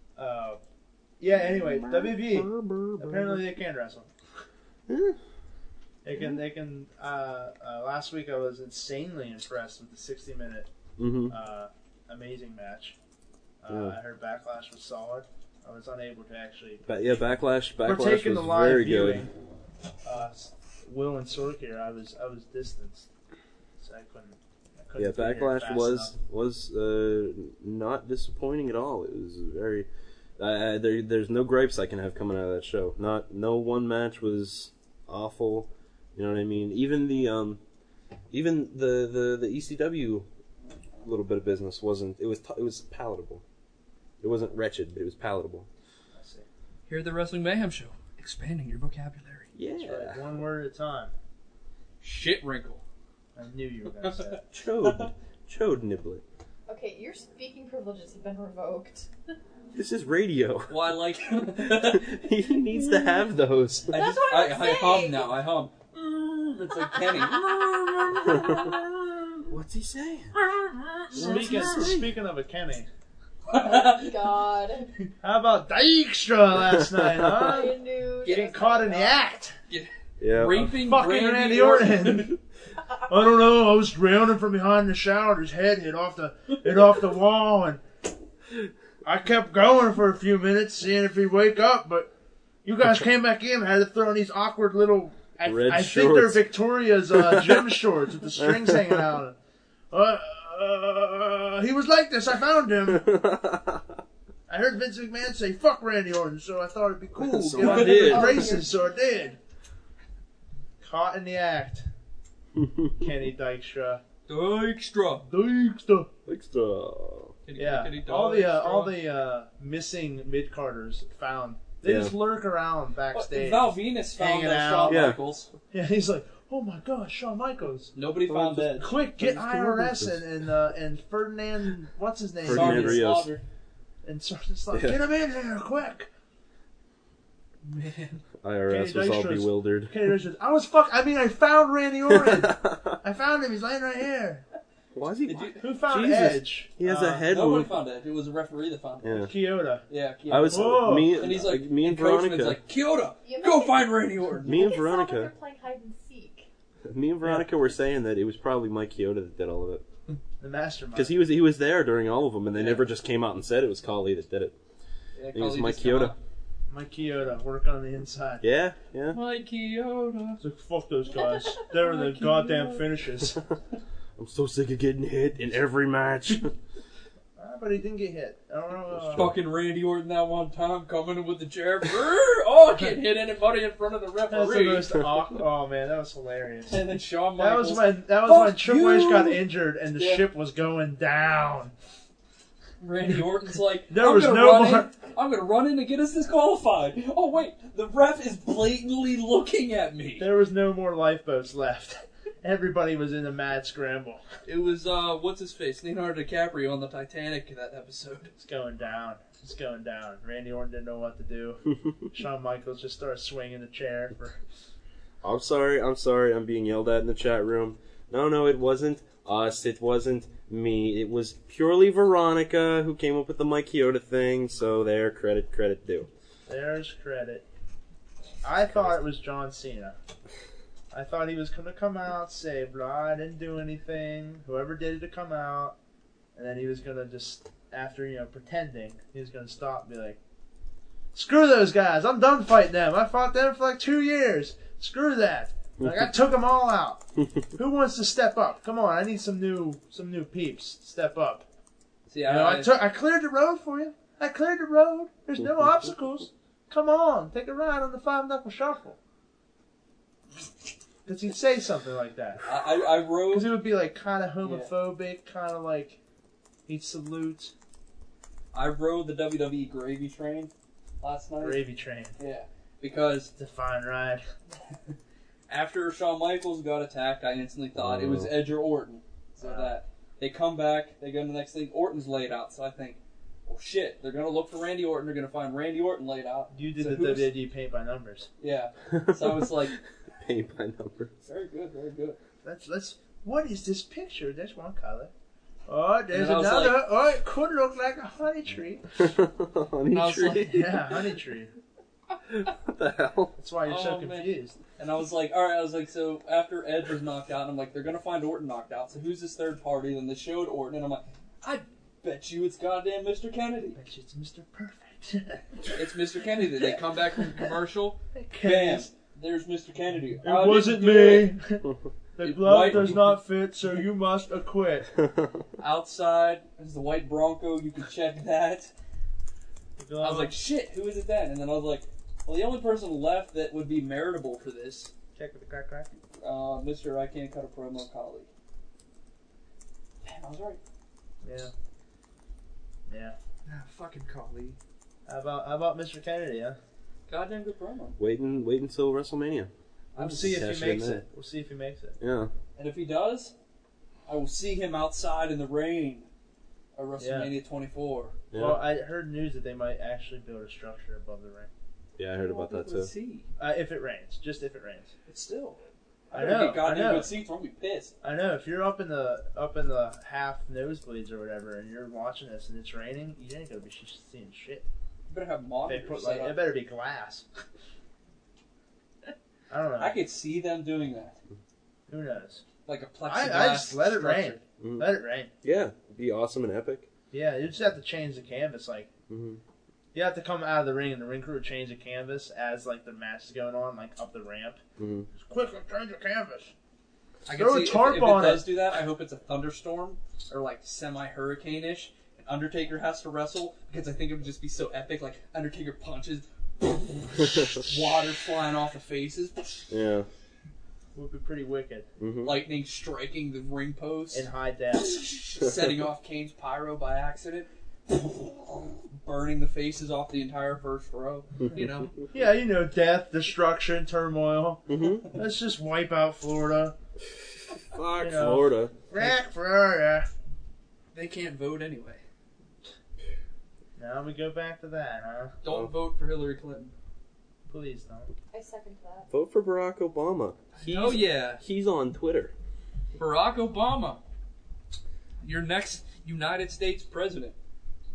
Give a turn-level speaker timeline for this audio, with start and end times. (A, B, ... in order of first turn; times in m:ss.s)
0:00.2-0:00.6 A
0:01.2-0:04.1 A
0:01.3-0:03.4 B
0:04.9-0:05.2 B
0:06.0-0:10.7 A
0:11.0-0:11.4 B
0:11.3-0:13.0 A
0:13.6-0:16.8 A
0:13.7-0:14.0 B
0:16.9-0:19.3 B
0:17.8-0:19.3 A
0:20.0-0:23.1 A
0:23.8-0:26.1 A
0:25.0-0:37.6 B
0:38.3-0:40.3 B
0:41.0-0:43.4 B
0:44.2-0:45.7 B
0:46.1-0:46.5 A
0:46.9-0:49.5 C
0:49.6-0:50.2 B
0:49.8-0:51.1 A
0:52.0-0:52.8 C
0:53.4-0:54.4 A
0:54.0-0:55.1 C
0:54.5-0:56.2 B
0:56.7-0:59.1 D
0:59.7-1:00.7 B
1:00.7-1:02.2 C
1:01.6-1:04.0 B
1:03.9-1:08.7 C
1:03.9-1:05.3 D
1:06.9-1:08.8 D
1:07.9-1:08.8 B
1:09.5-1:10.4 B
1:11.1-1:12.1 B
1:11.1-1:12.9 A
1:13.5-1:14.2 C
1:13.5-1:14.9 D
1:15.2-1:19.6 A
1:16.7-1:17.3 B
1:17.2-1:19.2 D
1:18.2-1:18.5 C
1:19.7-1:22.4 C
1:20.2-1:20.7 B
1:20.5-1:22.4 A
1:23.1-1:27.8 A
1:29.0-1:32.1 A
1:32.6-1:39.4 A
1:35.4-1:36.4 B
1:37.1-1:37.8 B
1:38.4-1:39.0 B
1:39.9-1:43.1 A
1:42.9-1:44.0 B
1:44.5-1:49.4 A
1:47.2-1:48.6 B
1:47.6-1:48.3 C
1:47.6-1:49.4 D
1:50.8-1:51.9 A
1:52.6-1:52.9 B
1:53.0-1:54.0 A
1:54.3-1:55.3 C
1:55.3-1:56.1 A
1:56.3-1:57.4 B
1:57.5-1:59.0 C
1:57.6-2:05.2 A
2:01.8-2:02.1 B
2:03.1-2:05.5 C
2:04.9-2:05.2 B
2:05.7-2:13.0 A
2:08.0-2:09.0 C
2:09.2-2:10.2 B
2:12.4-2:13.3 B
2:12.5-2:13.4 C
2:14.0-2:16.1 A
2:14.7-2:15.0 B
2:17.6-2:18.2 C
2:18.4-2:20.0 B
2:18.7-2:24.4 A
2:22.1-2:23.0 B
2:25.0-2:27.8 B
2:25.3-2:25.6 C
2:25.6-2:27.3 A
2:27.2-2:29.3 C
2:29.0-2:29.3 B
2:29.1-2:29.8 A
2:29.9-2:34.7 C
2:30.3-2:32.6 B
2:30.4-2:31.2 A
2:33.2-2:36.5 D
2:34.4-2:35.3 B
2:36.8-2:39.8 B
2:37.2-2:37.5 A
2:40.4-2:41.2 A
2:40.9-2:44.6 B
2:42.5-2:42.8 C
2:45.2-2:46.2 C
2:45.3-2:46.2 B
2:46.7-2:48.4 A
2:48.4-2:49.2 B
2:49.1-2:50.4 C
2:50.4-2:53.4 A
2:51.3-2:52.9 C
2:54.2-2:56.5 B
2:57.4-2:59.3 A
2:58.9-2:59.3 B
2:59.1-3:05.0 C
3:04.3-3:06.8 A
3:06.7-3:10.3 C
3:07.4-3:11.7 A
3:12.8-3:20.3 C
3:13.9-3:14.9 A
3:20.2-3:24.3 A
3:24.5-3:28.3 C
3:28.4-3:34.4 A
3:35.2-3:46.1 B
3:46.5-3:47.4 A
3:48.4-3:50.0 A
3:50.9-3:55.8 A
3:56.4-4:00.2 A
4:01.1-4:11.4 A
4:12.1-4:12.7 C
4:12.2-4:19.0 A
4:21.1-4:22.6 A
4:22.4-4:23.6 C
4:23.3-4:26.0 A
4:24.4-4:24.7 C
4:26.7-4:27.5 A
4:28.5-4:31.6 C
4:31.4-4:32.2 A
4:32.2-4:33.3 C
4:33.4-4:34.2 A
4:35.5-4:47.3 C
4:37.8-4:38.3 B
4:39.4-4:39.7 A
4:46.5-4:48.3 A
4:48.4-4:49.8 C
4:48.9-4:51.1 B
4:51.2-4:52.2 C
4:52.4-4:55.1 A
4:55.7-4:58.9 A
4:56.1-4:56.9 C
4:59.0-5:00.8 B
4:59.9-5:01.0 C
5:00.5-5:01.5 A
5:02.2-5:03.4 B
5:03.4-5:04.6 A
5:03.6-5:13.8 C
5:13.8-5:15.8 A
5:15.7-5:21.4 C
5:16.6-5:17.5 A
5:18.1-5:18.9 A
5:20.2-5:24.9 A
5:22.2-5:23.2 C
5:25.0-5:25.4 B
5:25.6-5:28.7 C
5:29.8-5:30.4 A
5:30.0-5:34.9 C
5:35.2-5:35.9 A
5:36.2-5:38.3 C
5:40.0-5:40.6 C
5:41.2-5:41.5 A
5:42.9-5:43.2 A
5:43.5-5:44.6 C
5:45.1-5:46.6 A
5:47.1-5:48.0 C
5:48.0-5:49.5 B
5:50.0-5:50.5 C
5:50.0-5:52.0 A
5:50.2-5:51.0 B
5:52.0-5:52.3 B
5:52.6-5:53.3 C
5:54.1-5:56.1 C
5:56.8-5:58.2 C
5:57.0-5:57.3 A
5:58.3-5:58.6 B
5:58.3-6:01.5 A
6:02.0-6:02.9 B
6:02.2-6:03.3 C
6:03.4-6:04.9 A
6:05.1-6:05.6 C
6:06.1-6:07.1 A
6:06.1-6:07.9 C
6:08.0-6:14.7 A
6:15.1-6:16.4 C
6:15.7-6:17.3 A
6:19.5-6:20.0 A
6:19.8-6:21.2 C
6:21.9-6:22.4 A
6:22.7-6:24.4 C
6:23.1-6:25.3 A
6:24.6-6:26.9 B
6:27.1-6:28.9 A
6:29.1-6:29.4 B
6:29.9-6:34.6 A
6:34.8-6:35.1 B
6:35.1-6:36.5 A
6:37.3-6:49.7 C
6:37.3-6:38.5 A
6:49.7-6:50.1 B
6:51.0-6:51.9 A
6:52.0-6:52.4 B
6:52.2-7:02.0 C
6:54.1-6:55.0 A
7:01.4-7:01.7 B
7:02.1-7:06.8 A
7:04.7-7:05.1 B
7:07.7-7:08.7 B
7:08.0-7:10.1 A
7:10.9-7:12.0 C
7:13.8-7:15.4 A
7:15.4-7:16.7 C
7:17.5-7:18.1 A
7:18.3-7:19.1 D
7:19.1-7:22.3 B
7:20.6-7:21.4 C
7:23.0-7:24.0 C
7:25.2-7:27.4 C